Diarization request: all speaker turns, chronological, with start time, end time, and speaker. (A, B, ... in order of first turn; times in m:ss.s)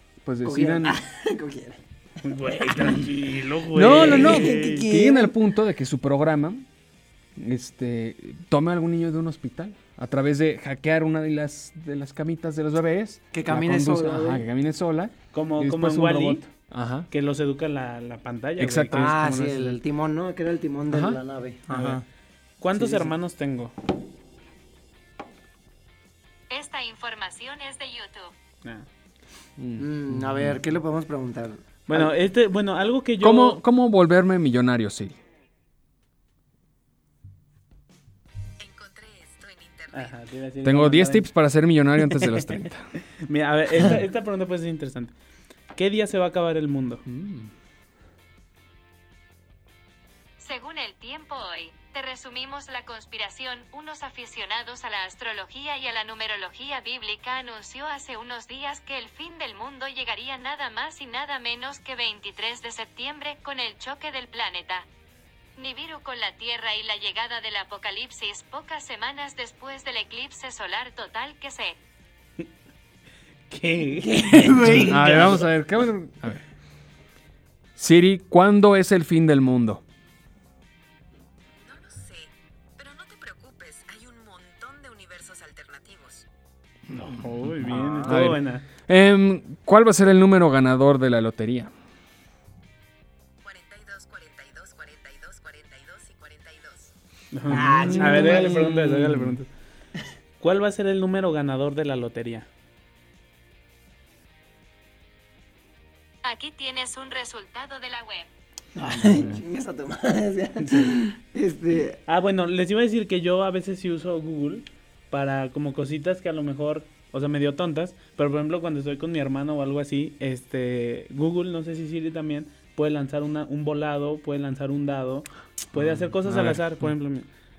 0:00.2-0:01.0 A
0:00.4-0:01.8 B
0:02.2-0:04.8 C
0:02.7-0:03.0 B
0:03.7-0:06.6 A
0:03.8-0:05.3 B
0:07.4-0:17.1 A
0:13.3-0:14.4 B
0:15.3-0:16.5 C
0:17.1-0:19.6 C
0:18.6-0:19.8 A
0:18.9-0:22.0 B
0:20.9-0:21.2 A
0:21.7-0:22.0 C
0:22.6-0:23.7 C
0:22.7-0:23.1 B
0:26.5-0:28.3 D
0:29.6-0:30.6 A
0:29.8-0:32.1 B
0:31.9-0:33.6 C
0:33.2-0:35.2 A
0:38.6-0:40.2 E
0:39.9-0:41.3 C
0:40.6-0:42.9 A
0:43.2-0:45.1 C
0:45.7-0:47.0 C
0:47.0-0:47.5 A
0:50.4-1:04.9 D
1:05.6-1:11.8 D
1:13.5-1:15.5 C
1:14.0-1:15.4 B
1:14.6-1:16.4 A
1:17.8-1:19.8 A
1:21.5-1:26.2 E
1:26.9-1:28.6 C
1:27.4-1:31.7 A
1:27.7-1:28.2 B
1:33.4-1:36.9 E
1:37.3-1:39.5 C
1:37.5-1:38.6 B
1:37.5-1:39.4 A
1:40.4-1:42.5 C
1:46.2-1:48.3 D
1:48.8-1:52.0 B
1:48.9-1:49.4 A
1:50.6-1:51.0 C
1:52.1-2:07.3 C
2:05.7-2:06.6 A